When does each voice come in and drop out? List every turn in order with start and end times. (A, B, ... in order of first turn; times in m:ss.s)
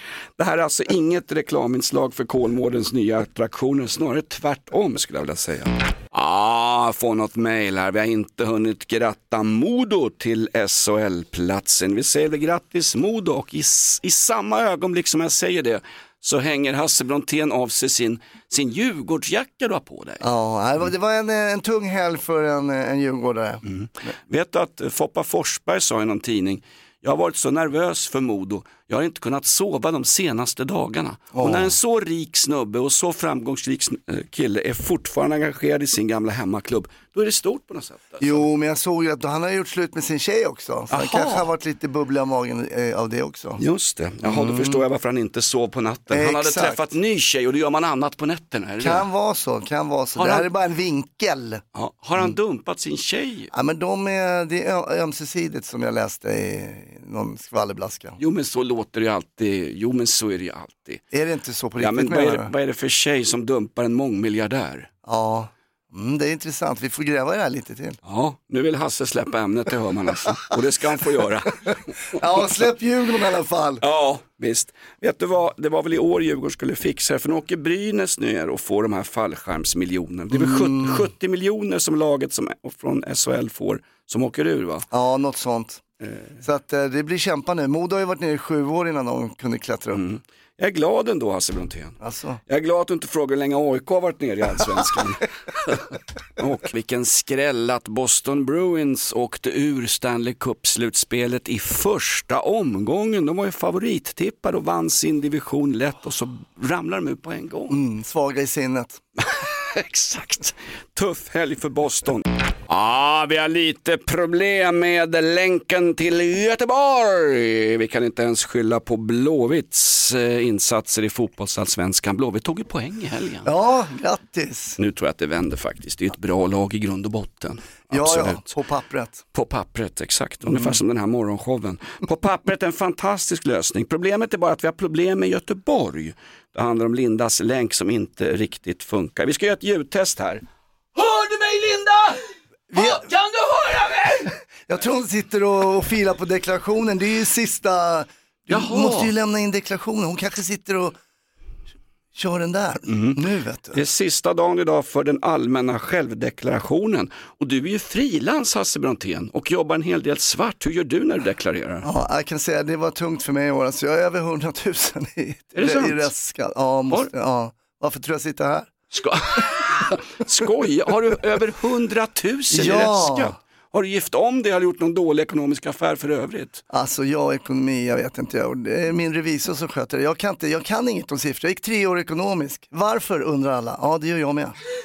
0:00.4-0:20.2 A
0:20.2-0:23.6 B
0:23.6-0:38.4 A
0:31.3-0:31.7 B
0:38.2-0:43.6 B
0:40.9-0:41.4 A
0:43.6-0:49.1 A
0:44.2-0:44.8 B
0:46.1-0:46.8 B
0:48.8-0:51.6 B
0:50.2-0:50.5 A
0:51.7-0:53.5 A
0:53.5-0:58.2 B
0:58.2-1:01.0 A
1:01.1-1:02.5 B
1:01.8-1:04.9 A
1:05.0-1:08.0 B
1:08.0-1:12.4 A
1:12.1-1:13.8 B
1:13.8-1:24.8 A
1:20.3-1:21.1 B
1:24.9-1:25.8 B
1:26.0-1:26.4 A
1:26.4-1:30.0 B
1:29.9-1:47.8 A
1:32.0-1:32.4 B
1:47.7-1:49.0 B
1:49.2-2:03.5 A
2:03.4-2:04.8 B
2:04.8-2:08.5 A
2:07.9-2:09.2 B
2:09.3-2:20.4 A
2:10.4-2:10.7 B
2:20.9-2:22.2 A
2:22.7-2:23.1 B
2:22.7-2:24.3 A
2:24.7-2:31.0 B
2:28.5-2:29.1 A
2:32.1-2:33.8 B
2:32.9-2:33.2 A
2:33.7-2:41.9 A
2:41.8-2:48.7 B
2:45.6-2:46.1 A
2:48.9-2:56.6 A
2:52.5-2:53.4 B
2:56.7-3:04.6 B